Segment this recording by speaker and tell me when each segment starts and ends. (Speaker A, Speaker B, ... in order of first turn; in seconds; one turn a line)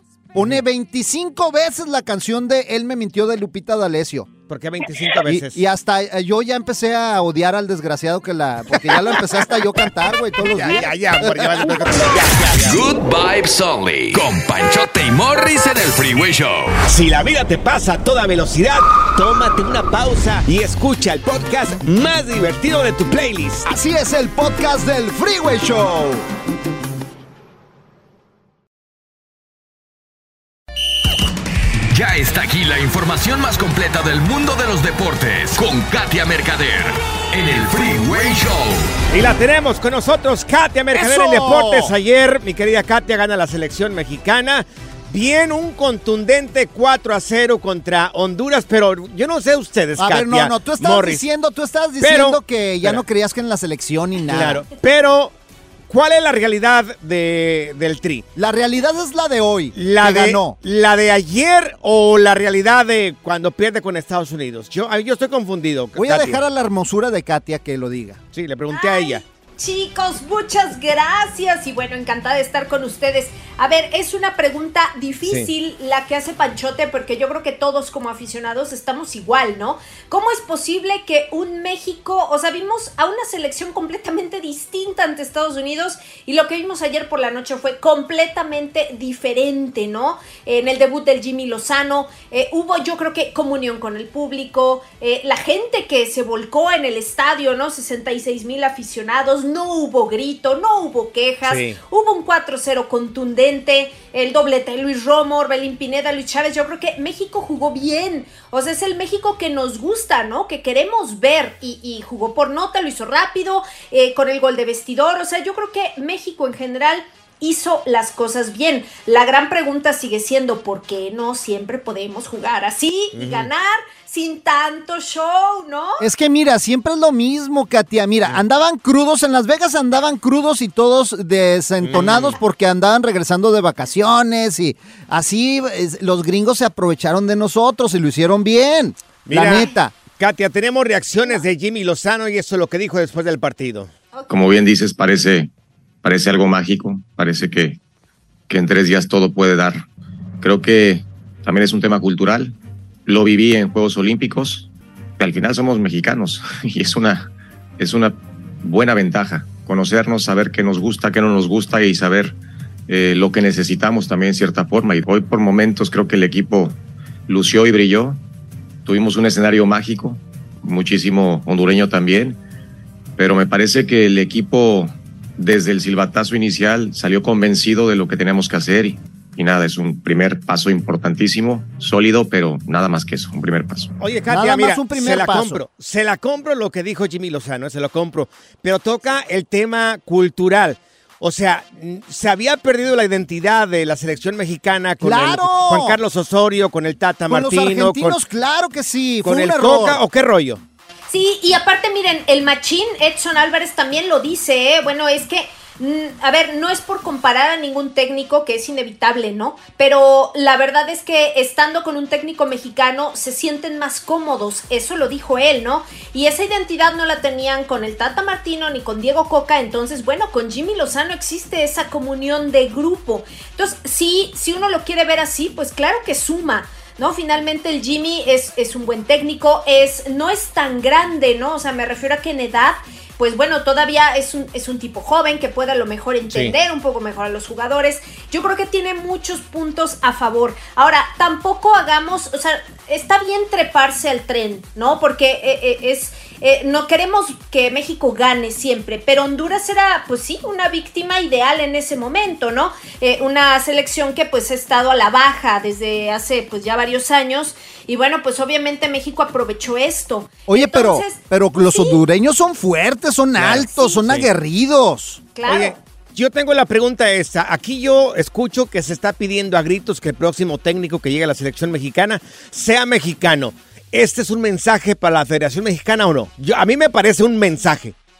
Speaker A: 0.3-4.3
Speaker B: 4.5-5.6
Speaker A: 5.2-12.2
Speaker B: 8.7-9.5
Speaker B: 10.4-12.8
Speaker C: 12.5-16.8
Speaker B: 16.9-23.7
Speaker A: 23.6-26.2
Speaker C: 31.9-38.9
Speaker B: 39.1-51.2
Speaker A: 40.9-41.9
Speaker A: 50.0-54.6
Speaker B: 52.0-53.0
Speaker B: 54.3-55.3
Speaker B: 55.9-58.2
Speaker A: 58.4-60.5
Speaker B: 59.8-66.4
Speaker A: 66.0-68.2
Speaker B: 68.3-69.2
Speaker D: 68.7-126.0
Speaker B: 101.4-101.8
Speaker B: 123.1-123.5
Speaker A: 126.0-139.9
Speaker B: 131.8-132.4
Speaker B: 139.2-143.9
Speaker E: 144.3-145.5
Speaker E: 146.0-147.8
Speaker E: 148.5-149.8
Speaker E: 150.4-162.3
Speaker E: 162.9-168.2
Speaker E: 168.8-172.4
Speaker E: 173.2-183.9
Speaker B: 184.0-198.2
Speaker A: 184.3-185.6
Speaker A: 195.0-196.0
Speaker A: 197.3-200.0
Speaker B: 199.2-200.6
Speaker D: 201.1-262.0
Speaker B: 236.3-236.6
Speaker A: 260.5-265.2
Speaker B: 263.4-264.3
Speaker D: 265.3-265.8
Speaker B: 265.4-277.9